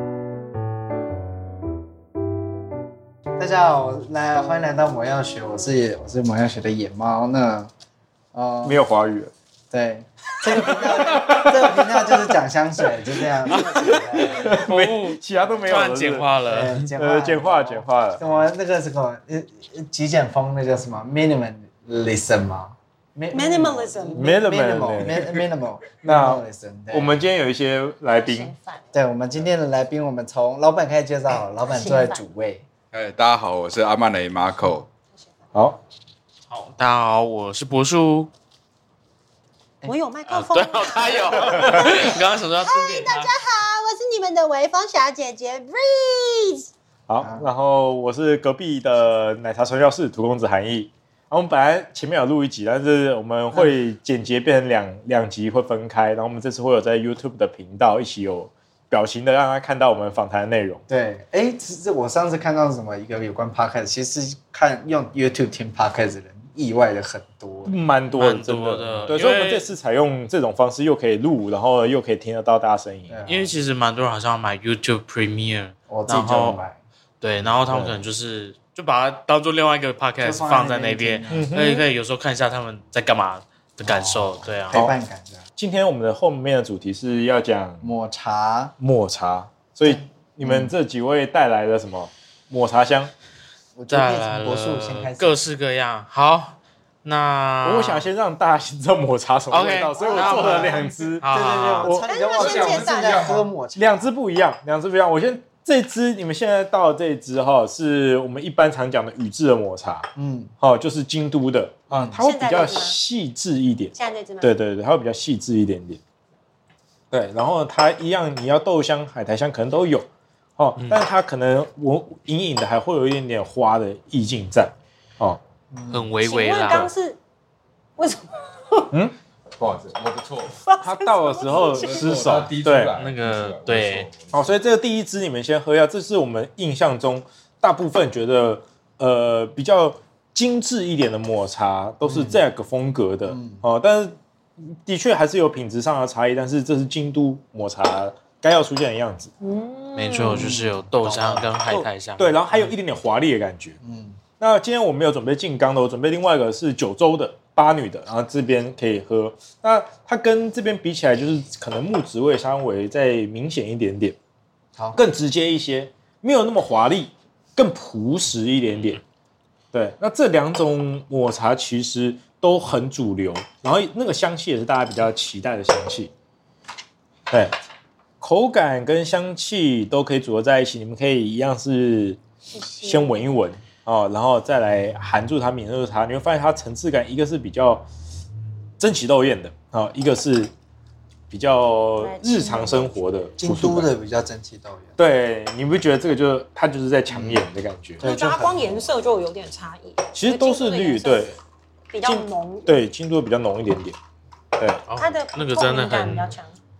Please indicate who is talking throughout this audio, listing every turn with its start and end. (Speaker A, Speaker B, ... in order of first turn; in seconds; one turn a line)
Speaker A: 3.4-7.7
Speaker A: 8.3-8.8
Speaker B: 8.6-9.3
Speaker A: 9.7-14.6
Speaker B: 10.5-12.2
Speaker C: 13.5-16.9
Speaker B: 13.5-16.3
Speaker A: 15.5-15.8
Speaker A: 16.4-27.2
Speaker B: 16.9-18.2
Speaker D: 23.3-24.4
Speaker B: 24.1-25.4
Speaker B: 26.0-28.5
Speaker D: 28.1-28.9
Speaker A: 28.9-32.6
Speaker D: 31.6-32.2
Speaker E: 32.9-34.9
Speaker B: 35.5-35.8
Speaker C: 36.5-38.3
Speaker D: 39.8-46.7
Speaker C: 40.3-43.3
Speaker B: 47.1-60.8
Speaker A: 47.2-47.5
Speaker A: 60.9-67.8
Speaker B: 67.6-73.2
Speaker C: 68.1-69.7
Speaker A: 73.1-73.5
Speaker C: 73.2-76.6
Speaker A: 75.9-76.8
Speaker C: 77.2-85.0
Speaker B: 77.7-78.0
Speaker A: 80.2-81.5
Speaker B: 81.3-81.8
Speaker A: 83.8-85.4
Speaker B: 85.6-87.8
Speaker A: 87.8-88.7
Speaker B: 88.8-93.1
Speaker A: 89.8-90.7
Speaker A: 93.8-95.4
Speaker C: 93.9-98.1
Speaker B: 97.6-101.2
Speaker C: 99.5-102.0
Speaker A: 99.9-104.1
Speaker B: 101.8-102.1
Speaker D: 102.0-103.4
Speaker E: 102.4-103.4
Speaker B: 103.7-110.1
Speaker A: 110.2-110.5
Speaker B: 110.6-116.0
Speaker A: 111.9-112.2
Speaker D: 112.2-113.0
Speaker D: 113.9-114.5
Speaker B: 117.1-120.1
Speaker B: 120.6-125.4
Speaker C: 120.8-121.0
Speaker A: 125.7-126.0
Speaker C: 125.9-126.9
Speaker D: 126.2-127.2
Speaker D: 128.0-128.9
Speaker E: 129.6-130.6
Speaker D: 130.6-132.3
Speaker B: 130.8-133.0
Speaker E: 131.6-134.5
Speaker C: 132.9-134.1
Speaker B: 134.3-149.3
Speaker A: 142.0-142.4
Speaker A: 143.3-143.6
Speaker D: 149.4-150.4
Speaker C: 149.9-152.4
Speaker A: 150.3-151.5
Speaker B: 151.7-153.8
Speaker A: 153.8-154.2
Speaker B: 154.4-164.2
Speaker B: 164.9-169.0
Speaker B: 169.7-176.1
Speaker B: 178.2-182.2
Speaker D: 182.5-183.3
Speaker B: 182.8-187.8
Speaker B: 188.8-190.5
Speaker B: 191.3-193.9
Speaker D: 192.0-192.9
Speaker A: 193.4-195.0
Speaker B: 195.0-198.0
Speaker A: 197.1-197.4
Speaker A: 198.0-198.9
Speaker D: 198.0-201.3
Speaker B: 200.1-201.4
Speaker D: 201.9-202.8
Speaker B: 202.0-204.0
Speaker B: 204.6-204.8
Speaker C: 204.9-206.3
Speaker D: 204.9-206.5